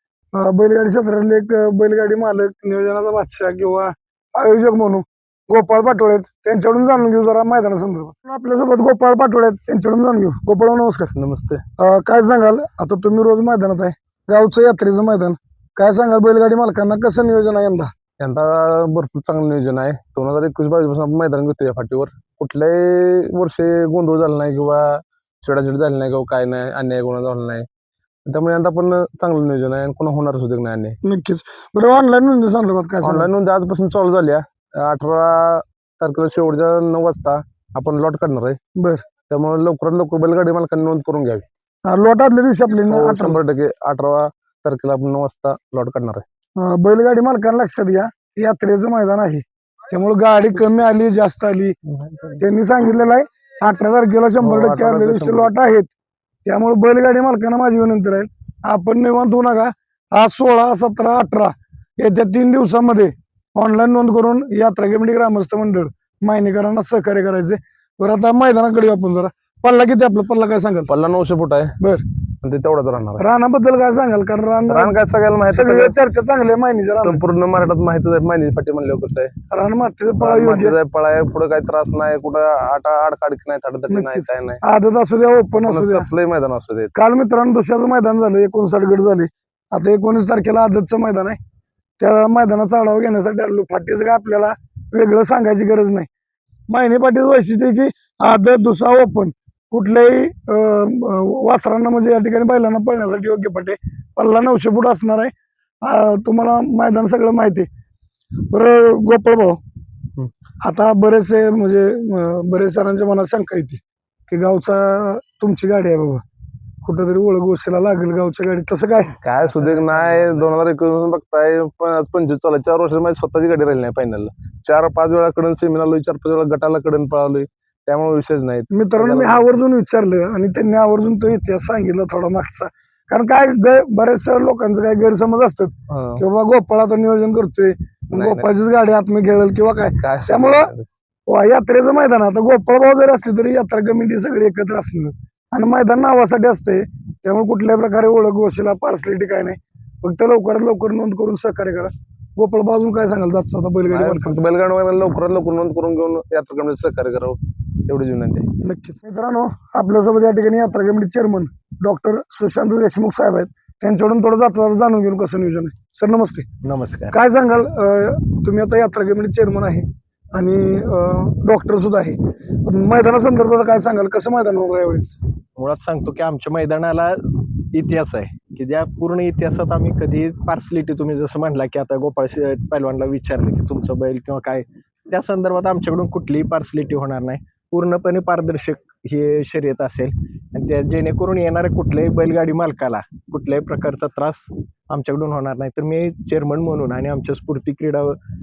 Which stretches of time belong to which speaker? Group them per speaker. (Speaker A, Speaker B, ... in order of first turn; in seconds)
Speaker A: 0.3-11.1, 11.8-17.9, 31.0-33.3, 38.8-39.0, 41.9-43.5, 46.6-51.7, 52.4-55.9, 56.5-70.9, 73.2-77.3, 79.5-80.8, 83.9-86.1, 86.9-91.4, 92.0-96.1, 96.7-105.3, 105.8-107.7, 108.5-109.6, 110.6-116.2, 116.8-119.1, 128.7-140.7, 141.3-154.4, 158.6-166.4, 167.1-175.2
Speaker B: 11.1-11.6, 18.2-27.6, 28.2-30.9, 33.0-38.6, 39.3-41.4, 42.9-46.2, 51.9-52.4, 54.4-55.5, 70.9-71.7, 72.4-73.2, 74.7-75.9, 77.0-79.3, 80.2-84.6, 85.6-86.9, 119.2-129.5, 135.9-136.2, 138.1-138.4, 140.0-140.9, 153.9-158.4
Speaker C: 166.6-167.1, 175.6-198.2